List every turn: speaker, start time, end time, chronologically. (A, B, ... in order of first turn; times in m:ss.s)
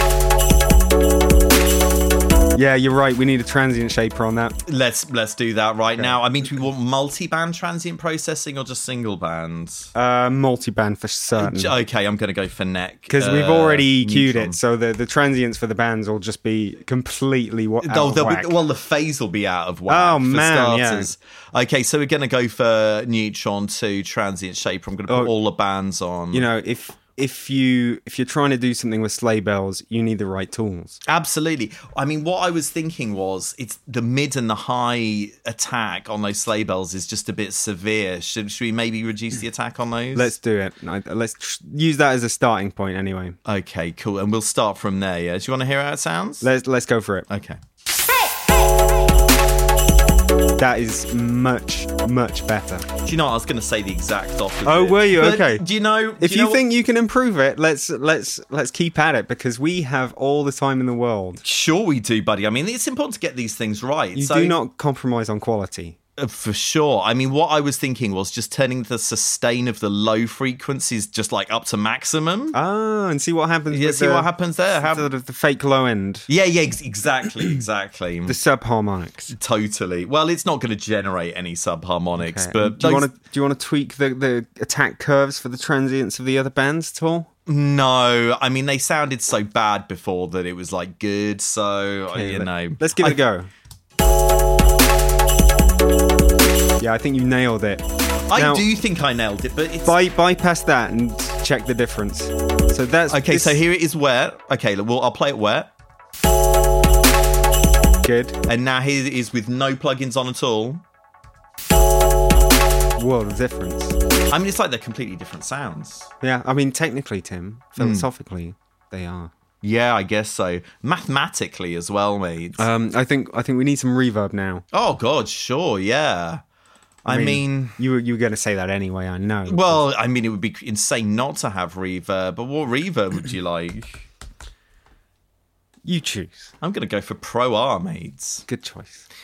0:02.6-0:04.6 A
0:04.6-0:09.9 B
0:09.9-0:11.7 A
0:11.4-0:14.6 B
0:13.1-0:18.5 A
0:17.8-0:26.5 B
0:19.9-0:21.1 A
0:26.3-0:31.0 A
0:31.0-0:40.3 B
0:40.1-0:43.4 A
0:43.4-0:46.5 B
0:46.4-0:47.3 A
0:47.3-0:47.6 B
0:50.6-0:52.8 A
0:53.0-0:56.6 B
0:54.6-0:55.6 A
0:56.2-1:01.4 A
1:01.4-1:04.6 B
1:04.1-1:06.0 A
1:06.2-1:12.6 B
1:12.5-1:16.3 A
1:13.7-1:15.1 B
1:16.3-1:18.4 B
1:18.2-1:19.3 A
1:19.3-1:23.1 B
1:22.2-1:27.3 A
1:27.5-1:33.2 B
1:32.1-1:33.5 A
1:36.8-1:37.8 A
1:38.3-1:40.0 B
1:38.3-1:38.6 A
1:39.8-1:43.6 A
1:43.1-1:45.7 B
1:48.0-1:48.3 A
1:48.5-1:50.8 B
1:53.0-1:54.0 A
1:54.3-1:56.1 B
1:56.2-1:59.3 A
1:57.8-1:58.1 B
1:59.6-2:02.6 B
2:02.6-2:04.6 A
2:04.7-2:06.4 B
2:07.0-2:07.8 B
2:07.1-2:09.8 A
2:09.5-2:14.0 B
2:15.8-2:16.5 A
2:16.6-2:18.4 B
2:18.4-2:19.0 A